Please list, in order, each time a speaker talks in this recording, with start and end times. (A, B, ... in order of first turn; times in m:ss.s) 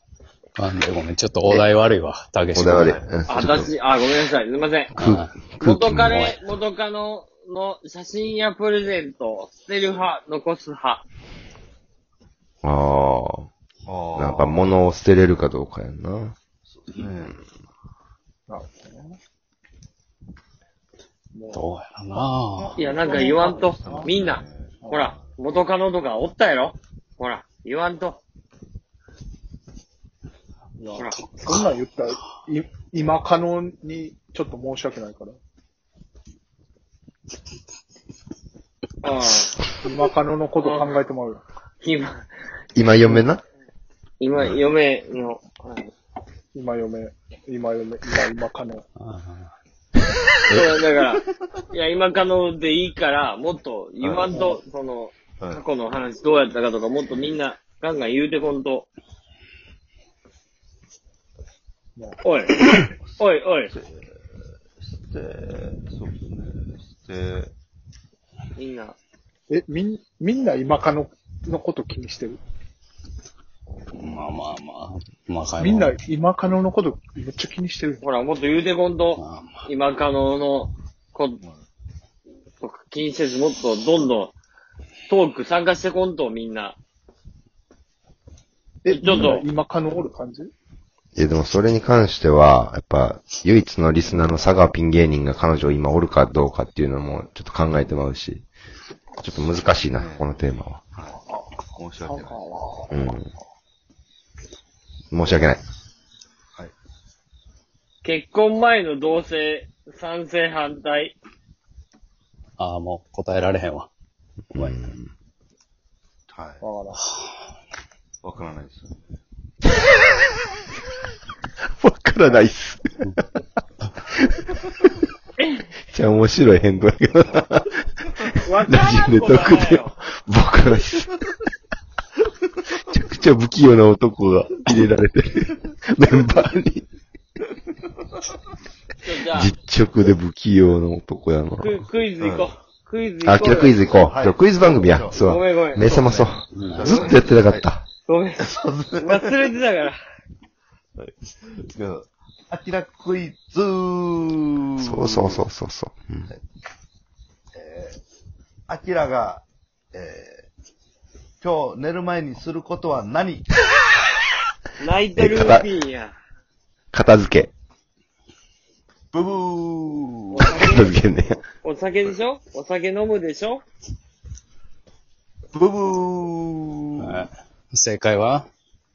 0:00.6-0:03.0 A
0:02.5-0:03.7 B
0:02.6-0:03.7 C
0:03.3-0:04.9 D
0:04.9-0:06.2 B
0:05.0-0:05.4 A
0:05.6-0:11.0 D
0:05.9-0:06.4 A
0:12.6-0:13.5 B
0:13.8-0:14.7 C
0:14.1-0:16.4 B
0:16.6-0:17.4 C
0:18.5-0:19.2 E
0:21.3-0:21.6 E
0:21.5-0:22.8 A
0:22.6-0:25.3 C
0:22.8-0:28.2 D
0:23.0-0:24.1 E
0:24.8-0:25.1 E
0:30.8-0:35.4 E
0:31.0-0:31.3 D
0:39.0-0:39.6 D
0:39.8-0:41.4 E
0:40.6-0:40.9 D
0:41.8-0:42.3 D
0:42.7-0:43.4 B
0:44.2-0:45.9 D
0:46.5-0:48.8 E
0:49.0-0:49.5 A
0:50.5-0:58.9 D
0:54.3-0:54.6 E
0:55.4-0:55.6 C
1:02.2-1:02.6 D
1:03.0-1:07.5 C
1:03.2-1:03.7 D
1:08.6-1:09.0 D
1:09.5-1:12.4 E
1:13.9-1:15.9 A
1:15.6-1:18.0 E
1:18.0-1:21.4 D
1:19.2-1:19.7 A
1:22.6-1:24.3 D
1:25.1-1:26.8 D
1:28.8-1:30.5 E
1:28.9-1:29.4 D
1:31.1-1:38.4 B
1:39.2-1:40.8 B
1:39.9-1:40.2 C
1:40.9-1:41.2 C
1:41.7-1:42.4 C
1:42.0-1:42.8 E
1:42.9-1:43.3 B
1:45.1-1:45.6 B
1:48.0-1:51.2 D
1:52.6-1:53.9 A
1:54.5-1:55.1 B
1:56.3-1:56.6 C
1:56.6-1:57.0 E
1:58.2-1:59.0 C
2:01.7-2:03.2 B
2:04.4-2:04.7 B
2:05.4-2:05.6 D
2:05.9-2:11.2 B
2:08.4-2:10.0 D
2:12.9-2:16.8 B
2:19.0-2:19.5 D
2:19.3-2:21.7 B
2:21.6-2:23.8 D
2:22.2-2:22.5 C
2:23.2-2:27.8 B
2:23.4-2:27.7 C
2:25.2-2:25.8 D
2:26.5-2:26.8 A
2:26.8-2:27.1 D
2:28.1-2:30.0 D
2:28.4-2:29.6 C
2:31.0-2:35.4 C
2:34.8-2:36.3 B
2:37.5-2:38.0 C
2:38.7-2:40.4 C
2:41.4-2:43.5 C
2:44.8-2:46.2 D
2:45.2-2:45.6 B
2:46.9-2:47.5 B
2:49.1-2:50.5 C
2:50.3-2:53.6 D
2:50.5-2:51.4 B
2:55.5-2:57.2 C
2:57.0-2:58.4 A